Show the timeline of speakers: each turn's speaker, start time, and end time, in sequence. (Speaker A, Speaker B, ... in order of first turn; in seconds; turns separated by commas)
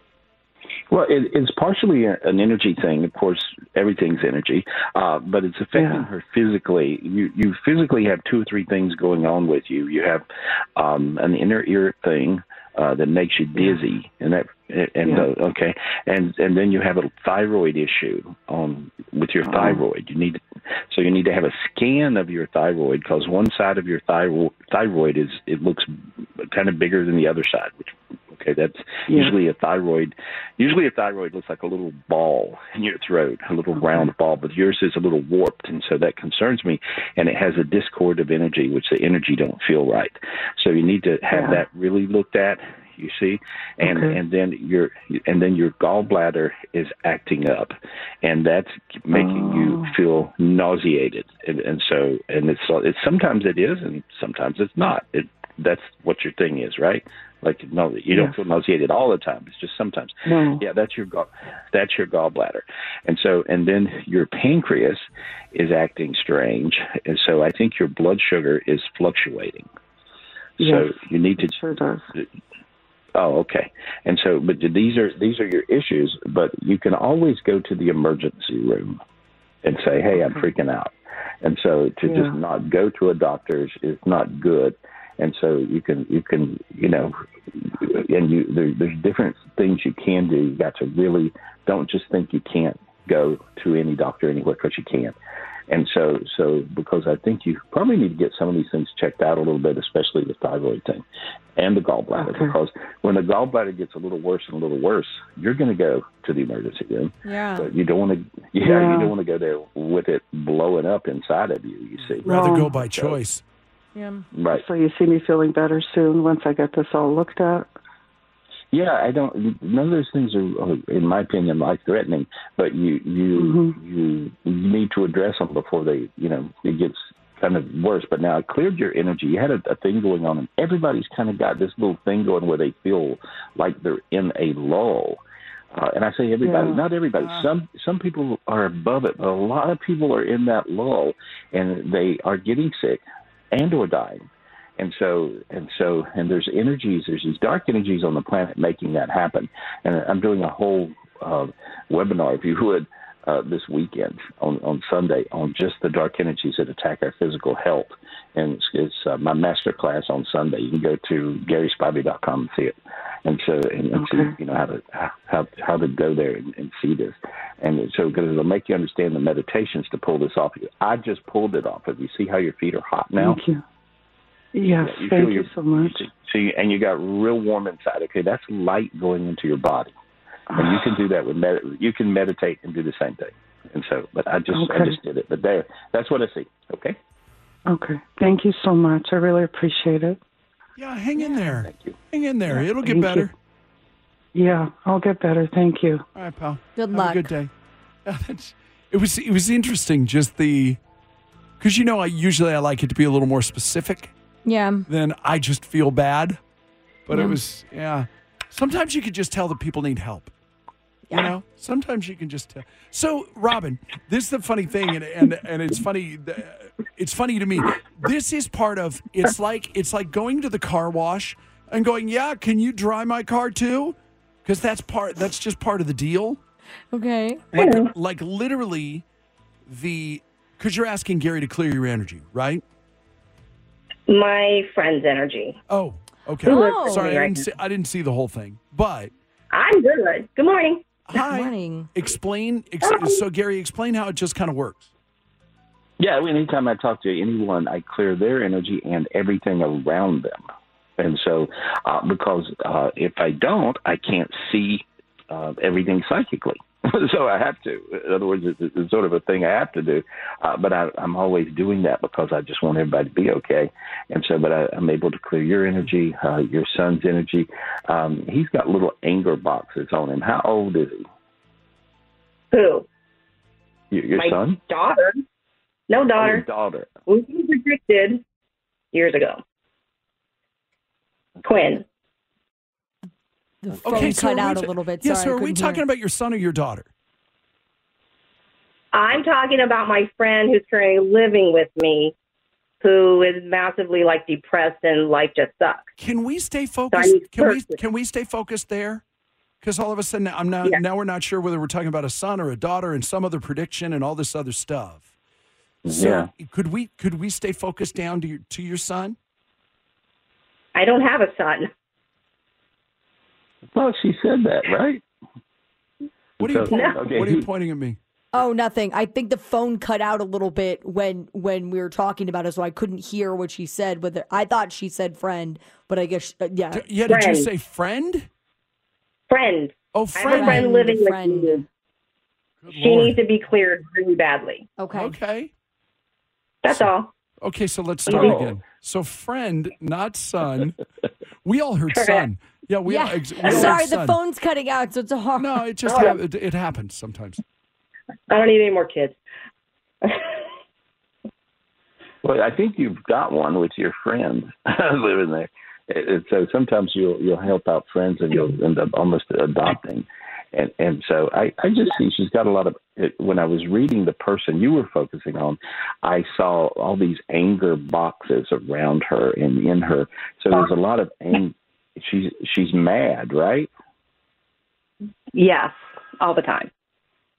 Speaker A: 0.9-69.7, Speaker B: 5.7-6.1, Speaker B: 19.4-19.8, Speaker B: 29.1-29.4, Speaker B: 33.7-34.1, Speaker B: 41.3-41.6, Speaker B: 43.8-44.2, Speaker B: 49.1-50.0, Speaker B: 58.1-58.4, Speaker B: 60.3-60.6, Speaker A: 70.6-71.5, Speaker B: 70.6-72.1, Speaker A: 73.1-79.0, Speaker A: 79.6-95.1, Speaker B: 80.1-80.5, Speaker B: 82.0-82.4, Speaker A: 95.7-101.0, Speaker A: 101.5-113.2, Speaker B: 102.2-102.5, Speaker C: 107.2-107.7, Speaker B: 108.6-109.1, Speaker D: 112.0-113.4, Speaker B: 112.2-112.8, Speaker C: 114.0-114.3, Speaker A: 114.3-114.6, Speaker B: 114.5-117.7, Speaker A: 118.7-135.2, Speaker B: 123.4-123.8, Speaker A: 135.7-144.3, Speaker B: 136.4-136.8, Speaker A: 144.8-173.4, Speaker B: 163.9-164.4, Speaker B: 173.2-173.6, Speaker B: 174.5-176.1, Speaker A: 174.8-179.9, Speaker B: 180.5-181.0, Speaker A: 180.6-187.0, Speaker B: 184.5-185.0, Speaker B: 187.7-190.2, Speaker D: 190.8-193.3, Speaker A: 191.6-192.0, Speaker B: 192.5-193.3, Speaker B: 194.3-196.0, Speaker D: 196.1-197.5, Speaker C: 196.8-197.2, Speaker D: 198.1-200.8, Speaker D: 201.6-204.1, Speaker C: 204.4-204.9, Speaker D: 204.9-206.4, Speaker D: 207.1-210.3, Speaker C: 207.1-207.4, Speaker D: 211.1-226.4, Speaker C: 226.9-227.4, Speaker E: 227.5-227.9, Speaker D: 227.5-229.0, Speaker D: 229.7-232.6, Speaker E: 234.1-235.6, Speaker D: 235.7-239.1, Speaker E: 236.4-237.5, Speaker C: 236.5-237.0, Speaker E: 239.5-240.8, Speaker D: 241.1-244.9, Speaker C: 241.2-241.9, Speaker E: 242.8-243.2, Speaker A: 246.0-250.4, Speaker A: 251.0-271.0, Speaker E: 272.5-272.9, Speaker A: 273.9-274.6, Speaker E: 274.1-275.2, Speaker E: 275.9-276.4, Speaker A: 276.2-276.9, Speaker E: 277.1-278.2, Speaker E: 278.9-279.4, Speaker E: 281.4-281.8, Speaker C: 283.6-285.8, Speaker D: 283.8-286.9, Speaker E: 288.9-292.1, Speaker E: 292.8-295.9, Speaker D: 296.0-299.0, Speaker E: 296.9-297.8, Speaker D: 299.6-305.1, Speaker A: 305.8-306.3, Speaker D: 305.9-309.2, Speaker E: 310.7-311.7, Speaker A: 313.7-315.0, Speaker A: 316.4-317.5, Speaker D: 316.4-318.0, Speaker E: 316.7-317.0, Speaker C: 318.3-326.9, Speaker D: 326.7-328.3, Speaker E: 327.0-327.5, Speaker E: 329.3-331.6, Speaker D: 329.9-330.7, Speaker C: 330.3-331.6, Speaker D: 332.6-333.2, Speaker E: 332.7-334.7, Speaker C: 334.8-335.1, Speaker D: 334.9-335.5, Speaker E: 336.6-337.1, Speaker D: 337.4-340.8, Speaker E: 338.1-338.5, Speaker D: 341.4-344.2, Speaker E: 341.9-342.3, Speaker C: 342.9-345.6, Speaker E: 343.4-343.7, Speaker D: 345.4-347.4, Speaker E: 345.9-346.2, Speaker E: 348.3-349.2, Speaker A: 352.2-373.7, Speaker E: 375.3-376.7